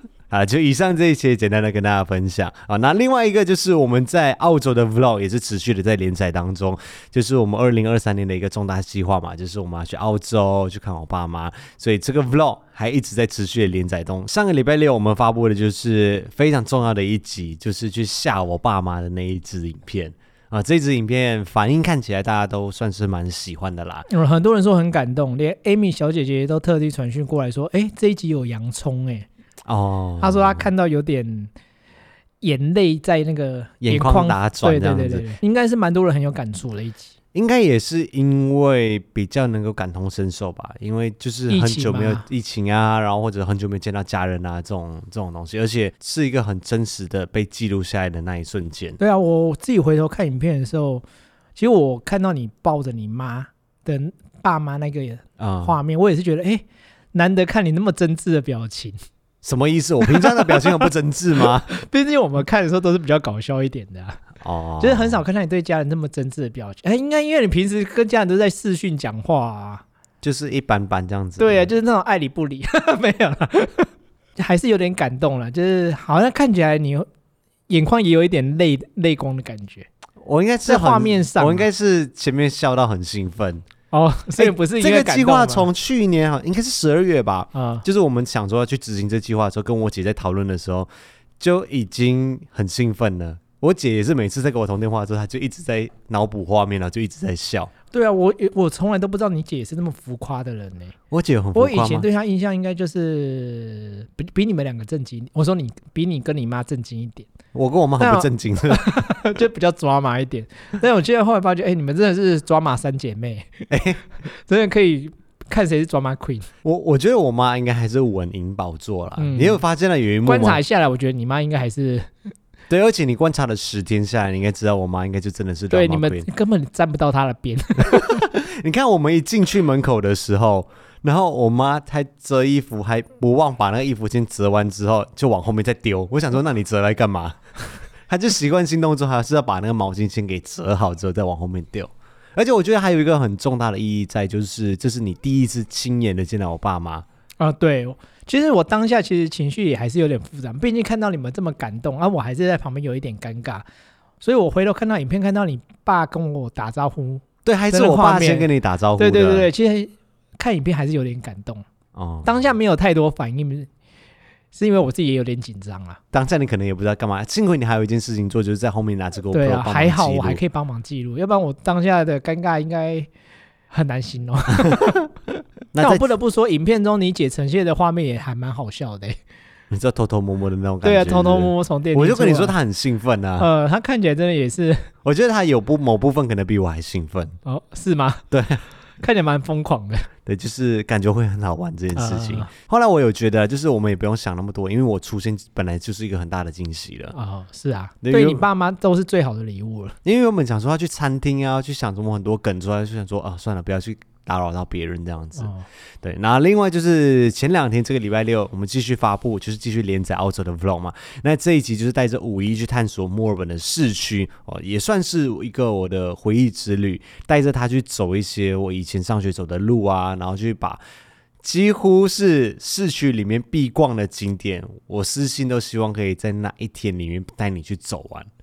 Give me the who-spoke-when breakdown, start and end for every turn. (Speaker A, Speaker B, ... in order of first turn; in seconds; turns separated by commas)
Speaker A: 0.3-24.1, Speaker B: 24.1-29.3, Speaker A: 29.7-30.7, Speaker B: 30.2-31.5, Speaker B: 32.4-37.1, Speaker A: 33.8-35.3, Speaker A: 37.3-49.0, Speaker B: 41.5-42.2, Speaker B: 49.0-51.0, Speaker B: 51.5-59.0, Speaker A: 55.4-55.7, Speaker A: 59.4-61.7, Speaker B: 60.0-60.9, Speaker B: 61.4-64.2, Speaker A: 64.4-65.2, Speaker B: 64.8-69.8, Speaker A: 70.2-71.7, Speaker B: 71.4-77.1, Speaker B: 77.7-79.9, Speaker A: 80.2-83.6, Speaker B: 80.6-81.7, Speaker B: 83.9-85.7, Speaker A: 84.4-90.9, Speaker B: 87.5-87.8, Speaker A: 91.4-97.7, Speaker B: 97.9-100.9, Speaker A: 101.1-102.1, Speaker B: 101.5-107.3, Speaker A: 107.5-109.0, Speaker B: 108.0-113.7, Speaker A: 113.7-114.0, Speaker B: 114.3-116.5, Speaker A: 116.6-120.6, Speaker B: 119.2-119.6, Speaker B: 120.2-122.1, Speaker A: 122.7-126.3, Speaker B: 125.7-128.3, Speaker A: 127.8-137.4, Speaker A: 138.1-147.0, Speaker B: 147.4-153.6, Speaker B: 154.2-161.7, Speaker A: 157.4-159.5, Speaker A: 161.9-162.4, Speaker B: 162.2-163.7, Speaker B: 164.5-166.0, Speaker A: 166.1-170.4, Speaker B: 169.3-173.1, Speaker B: 173.7-175.1, Speaker A: 174.6-175.0, Speaker A: 175.7-176.1, Speaker B: 175.8-179.2, Speaker A: 179.7-183.5, Speaker B: 180.8-182.6, Speaker B: 183.4-184.9, Speaker A: 185.0-187.3, Speaker B: 187.4-188.2, Speaker A: 188.3-188.6, Speaker B: 189.0-190.1, Speaker A: 190.2-197.1, Speaker B: 191.9-192.5, Speaker B: 197.1-200.0, Speaker A: 198.0-198.4, Speaker A: 200.0-220.8, Speaker B: 205.4-205.6, Speaker A: 221.4-228.3